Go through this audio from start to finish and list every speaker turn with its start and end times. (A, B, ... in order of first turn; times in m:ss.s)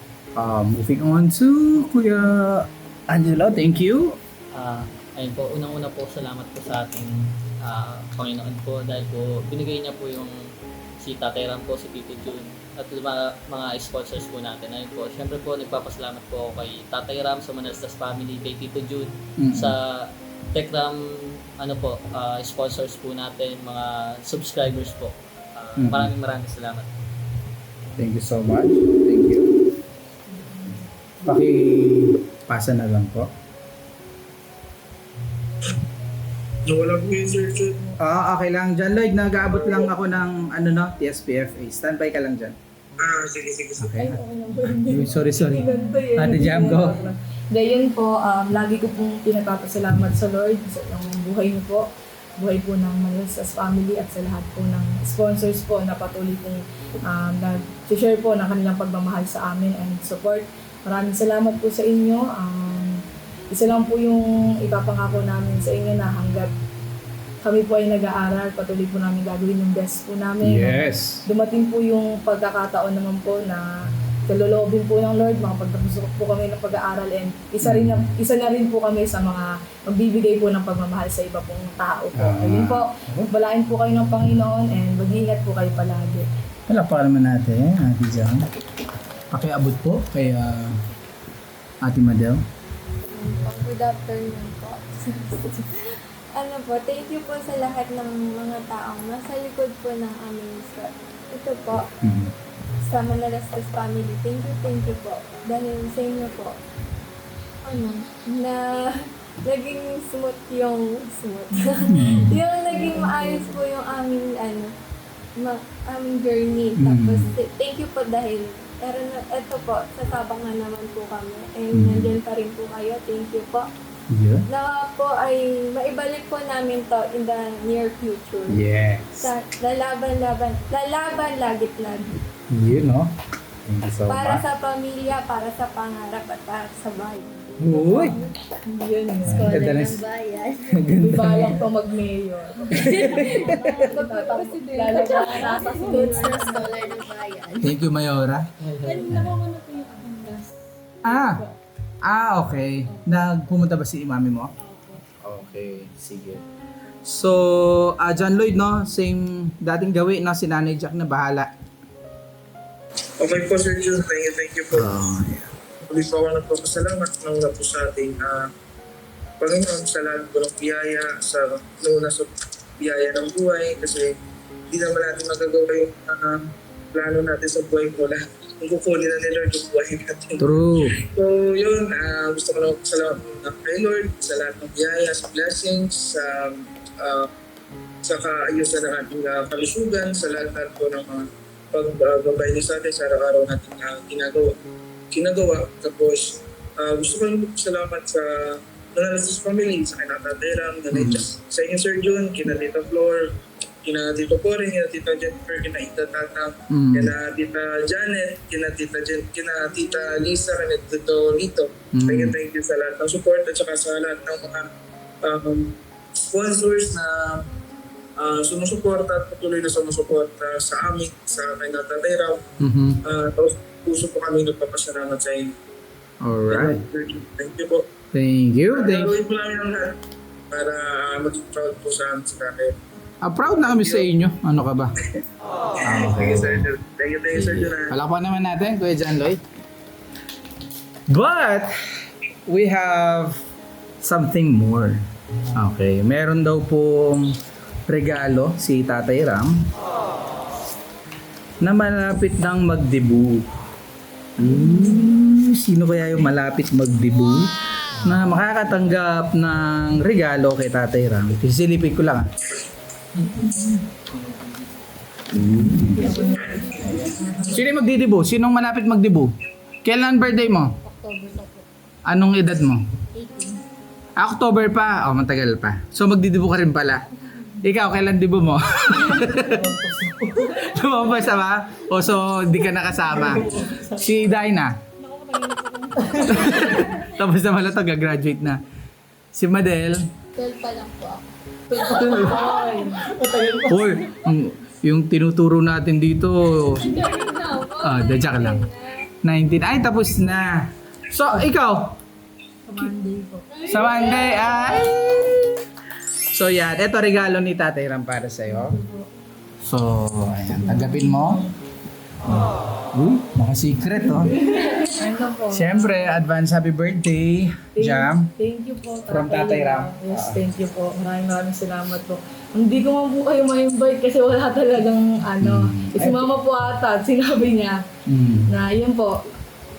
0:00.4-0:04.2 A
0:04.5-0:26.9 B
0:19.4-0:19.7 A
0:25.8-0:26.1 A
0:28.0-0:29.5 A
0:30.3-0:30.8 C
0:31.2-0:33.3 A
0:36.6-0:37.9 D
0:38.0-0:42.6 A
0:39.5-0:39.9 D
0:43.0-0:44.0 D
0:43.8-0:44.2 A
0:44.0-0:51.9 C
0:44.7-0:47.0 A
0:52.4-1:06.5 C
1:07.4-1:13.6 C
1:10.4-1:11.2 A
1:14.3-1:26.3 C
1:17.6-1:18.2 A
1:22.1-1:23.3 A
1:26.7-1:28.5 A
1:29.3-1:30.8 A
1:31.8-1:32.4 A
1:33.0-1:41.9 E
1:42.0-1:42.3 A
1:42.8-1:46.6 E
1:47.6-1:54.7 E
1:51.9-1:52.4 A
1:55.4-2:03.7 E
1:56.8-1:57.3 A
2:01.7-2:02.2 A
2:04.1-2:04.4 A
2:04.5-2:08.6 E
2:08.5-2:09.3 A
2:09.2-2:12.2 E
2:12.5-2:14.4 A
2:14.1-2:18.3 E
2:17.6-2:18.2 A
2:18.6-2:19.5 C
2:19.2-2:20.0 A
2:19.3-2:20.8 F
2:20.7-2:21.6 A
2:21.0-2:26.6 C
2:22.8-2:23.8 A
2:22.8-2:26.6 E
2:25.3-2:27.8 F
2:27.6-2:28.5 A
2:28.6-2:29.2 B
2:28.8-2:30.6 E
2:29.1-2:29.3 A
2:31.0-2:31.4 A
2:31.1-2:31.5 E
2:32.0-2:34.5 A
2:32.9-2:33.2 E
2:34.6-2:35.1 E
2:35.2-2:36.4 A
2:37.0-2:41.5 A
2:43.2-2:44.9 D
2:44.7-2:45.5 A
2:45.8-2:48.5 D
2:49.4-2:54.1 D
2:54.7-3:07.3 D
3:00.4-3:01.0 A
3:08.0-3:14.6 D
3:15.1-3:23.2 D
3:20.9-3:21.3 A
3:23.8-3:34.7 D
3:26.7-3:27.1 A
3:31.9-3:32.4 A
3:35.2-3:35.7 D
3:36.3-3:37.4 D
3:38.2-3:42.4 D
3:42.6-3:43.0 A
3:43.0-3:45.5 D
3:46.2-3:46.8 A
3:46.5-3:47.9 D
3:48.1-3:49.2 A
3:48.7-3:50.0 D
3:50.5-3:52.7 D
3:53.2-3:55.0 A
3:55.8-3:56.6 A
3:55.9-3:57.9 D
3:57.3-3:59.4 A
4:01.1-4:01.7 A
4:02.5-4:03.5 A
4:04.0-4:07.4 A
4:07.9-4:09.6 A
4:11.6-4:13.4 A
4:14.4-4:22.3 A
4:25.3-4:26.2 A
4:25.9-4:27.6 C
4:27.4-4:30.8 A
4:30.8-4:31.6 F
4:32.1-4:32.8 A
4:33.1-4:33.6 F
4:34.2-4:37.0 A
4:37.6-4:44.8 A
4:45.0-4:47.0 E
4:46.2-4:48.6 A
4:49.3-4:50.1 A
4:50.3-4:53.6 E
4:51.9-4:52.4 A
4:53.5-4:57.0 A
4:56.7-4:59.1 E
4:57.8-4:58.6 A
4:59.2-5:02.0 A
5:02.6-5:04.2 C
5:03.7-5:05.0 E
5:03.7-5:05.6 A
5:06.3-5:08.8 A
5:08.7-5:09.1 C
5:09.6-5:11.4 A
5:10.6-5:11.6 C
5:12.2-5:14.9 A
5:14.5-5:16.2 C
5:15.5-5:18.3 A
5:17.8-5:27.8 C
5:19.1-5:20.4 A
5:25.4-5:26.3 A
5:28.0-5:28.5 A
5:28.5-5:29.2 C